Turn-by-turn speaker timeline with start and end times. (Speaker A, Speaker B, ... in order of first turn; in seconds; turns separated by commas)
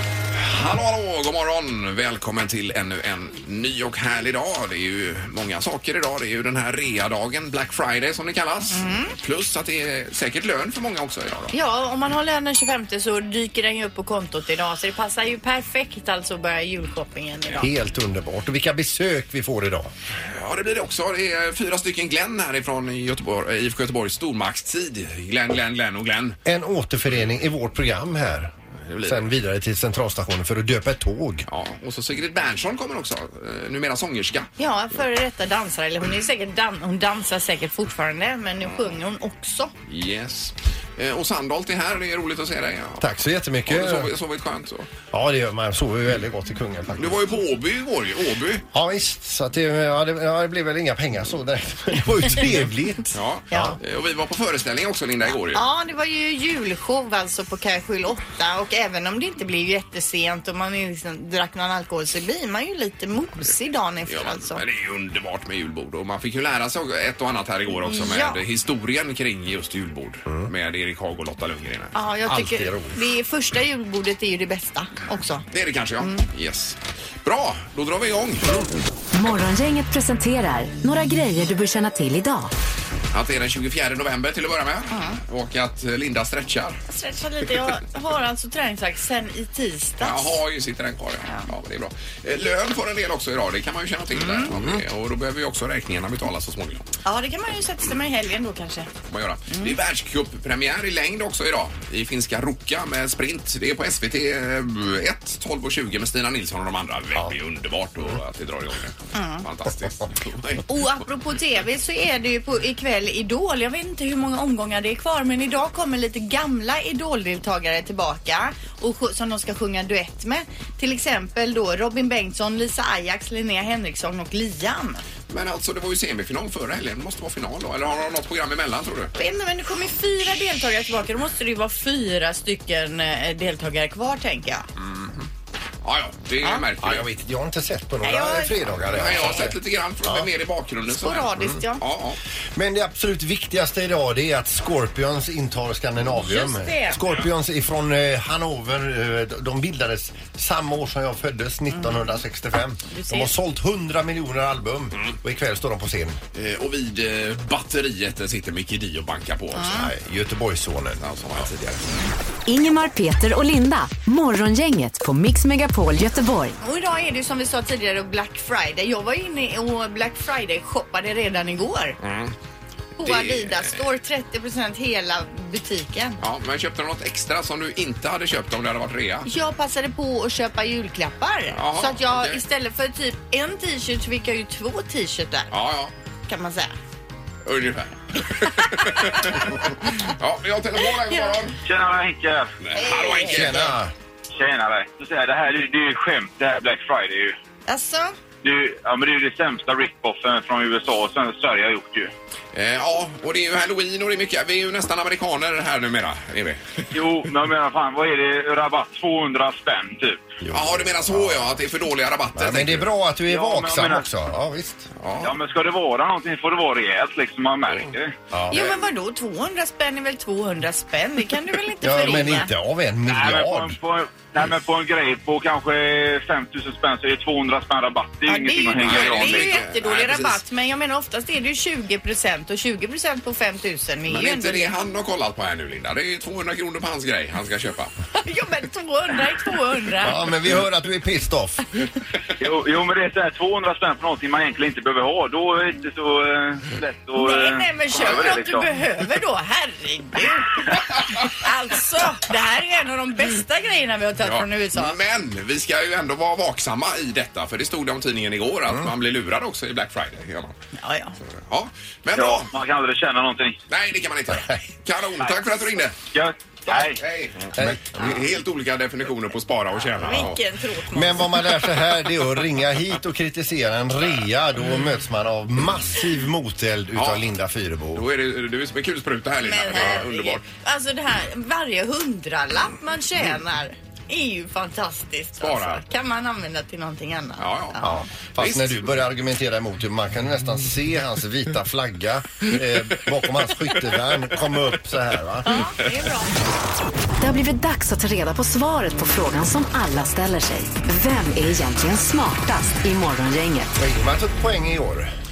Speaker A: 0.4-11.5, Speaker B: 8.7-9.1, Speaker B: 11.5-17.7, Speaker C: 17.6-19.9, Speaker A: 20.2-26.4, Speaker C: 26.4-28.5, Speaker A: 28.9-29.2, Speaker C: 29.0-31.5, Speaker A: 31.5-34.5, Speaker B: 34.6-39.7, Speaker A: 39.9-44.9, Speaker C: 43.0-44.1, Speaker C: 45.1-47.2, Speaker A: 47.0-48.6, Speaker C: 48.7-53.8, Speaker A: 53.1-55.6, Speaker B: 53.5-53.8, Speaker B: 55.5-64.6, Speaker A: 64.1-71.9, Speaker B: 67.8-68.4, Speaker B: 71.9-75.4, Speaker C: 72.2-73.0, Speaker A: 75.5-78.7, Speaker D: 79.1-82.5, Speaker A: 83.1-86.8, Speaker B: 84.9-85.2, Speaker B: 86.9-90.3, Speaker A: 90.0-96.8, Speaker B: 94.2-94.5, Speaker B: 97.0-98.9, Speaker A: 99.1-110.7, Speaker B: 99.5-99.7, Speaker B: 109.1-109.4, Speaker B: 110.7-125.0, Speaker A: 125.3-129.1, Speaker B: 129.2-134.7, Speaker A: 134.8-135.2, Speaker A: 135.8-137.1, Speaker C: 136.8-140.3, Speaker B: 138.0-138.6, Speaker A: 138.8-142.2, Speaker B: 140.9-141.8, Speaker C: 142.5-156.2, Speaker B: 146.1-147.0, Speaker B: 151.7-152.1, Speaker B: 152.9-153.3, Speaker A: 156.3-159.7, Speaker B: 159.6-159.9, Speaker C: 159.6-161.4, Speaker A: 161.0-161.8, Speaker D: 162.4-166.6, Speaker B: 166.6-171.9, Speaker A: 172.0-172.3, Speaker B: 173.0-176.2, Speaker A: 173.0-173.8, Speaker A: 176.2-179.3, Speaker B: 179.2-185.5, Speaker A: 181.5-182.4, Speaker A: 185.5-185.9, Speaker B: 186.3-186.7, Speaker A: 187.4-191.6, Speaker E: 191.7-192.5, Speaker A: 192.6-193.7, Speaker B: 192.8-193.7, Speaker C: 193.2-193.9, Speaker E: 194.3-197.3, Speaker B: 197.7-198.2, Speaker E: 198.4-202.1, Speaker A: 202.5-206.9, Speaker E: 206.9-210.2, Speaker C: 210.4-211.6, Speaker A: 210.5-212.9, Speaker C: 212.3-214.9, Speaker E: 213.3-214.1, Speaker A: 215.0-215.3, Speaker E: 215.2-218.2, Speaker C: 218.3-218.7, Speaker B: 218.5-222.5, Speaker C: 221.8-223.8, Speaker E: 223.0-229.5, Speaker B: 228.2-234.7, Speaker A: 228.8-230.4, Speaker A: 234.1-237.9, Speaker B: 238.2-240.3, Speaker C: 240.0-241.6, Speaker E: 242.4-248.7, Speaker B: 247.1-254.9, Speaker A: 254.2-260.5, Speaker B: 260.7-261.1, Speaker A: 261.4-262.5, Speaker E: 262.1-263.6, Speaker A: 263.7-265.9, Speaker E: 266.1-267.0, Speaker A: 266.7-270.4, Speaker C: 267.6-268.2, Speaker B: 270.0-271.4, Speaker C: 270.9-278.1, Speaker A: 276.9-277.3, Speaker A: 277.9-280.4, Speaker B: 279.4-288.1, Speaker A: 285.4-285.8, Speaker A: 287.4-288.9, Speaker C: 287.8-295.7, Speaker B: 295.4-296.3, Speaker D: 297.2-303.7, Speaker C: 303.8-305.1